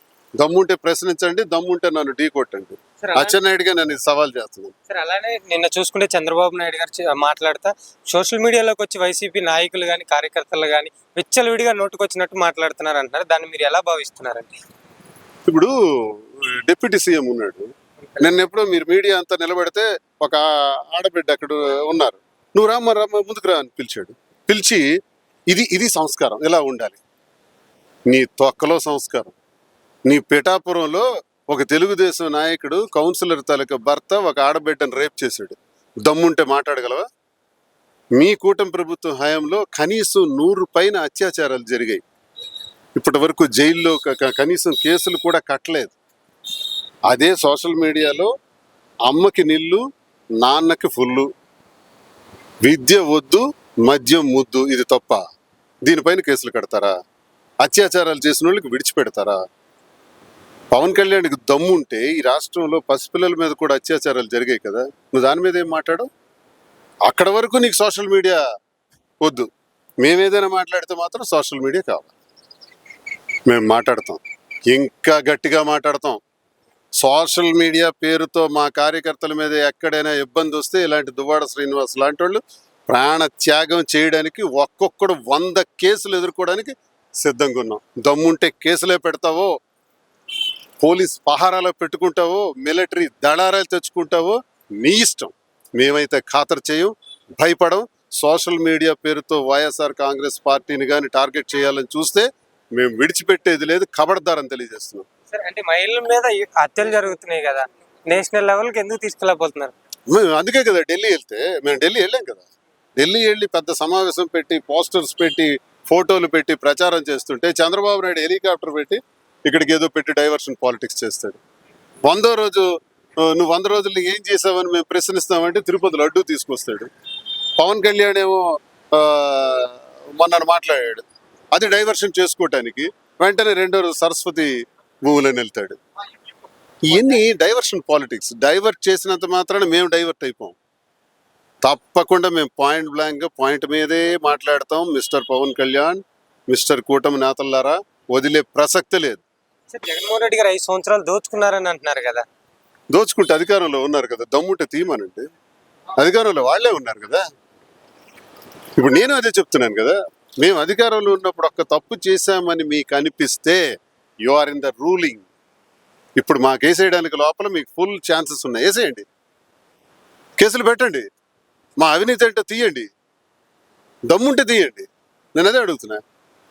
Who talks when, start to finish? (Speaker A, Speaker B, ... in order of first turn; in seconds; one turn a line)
Speaker A: 0.4-4.7
Speaker B: 3.0-3.4
Speaker B: 4.9-14.6
Speaker A: 15.4-17.7
Speaker A: 18.2-24.9
Speaker A: 25.5-27.0
Speaker A: 28.1-29.4
Speaker A: 30.1-37.1
Speaker A: 38.2-42.0
Speaker A: 43.0-46.0
Speaker A: 47.1-48.3
Speaker A: 49.1-49.8
Speaker A: 50.4-51.3
Speaker A: 52.6-55.2
Speaker A: 55.9-56.9
Speaker A: 57.6-59.4
Speaker A: 60.7-66.1
Speaker A: 67.1-68.4
Speaker A: 69.2-69.5
Speaker A: 70.0-72.1
Speaker A: 73.5-76.2
Speaker A: 77.0-89.5
Speaker A: 90.8-105.1
Speaker B: 105.3-109.7
Speaker A: 110.1-121.4
Speaker A: 122.0-122.7
Speaker A: 123.2-126.9
Speaker A: 127.6-128.4
Speaker A: 128.9-134.5
Speaker A: 135.1-135.8
Speaker A: 136.9-140.6
Speaker A: 141.6-149.2
Speaker B: 149.7-152.2
Speaker A: 152.9-155.3
Speaker A: 156.0-157.2
Speaker A: 158.8-163.6
Speaker A: 164.3-165.3
Speaker A: 166.2-169.1
Speaker A: 170.4-171.0
Speaker A: 171.8-172.9
Speaker A: 174.1-176.0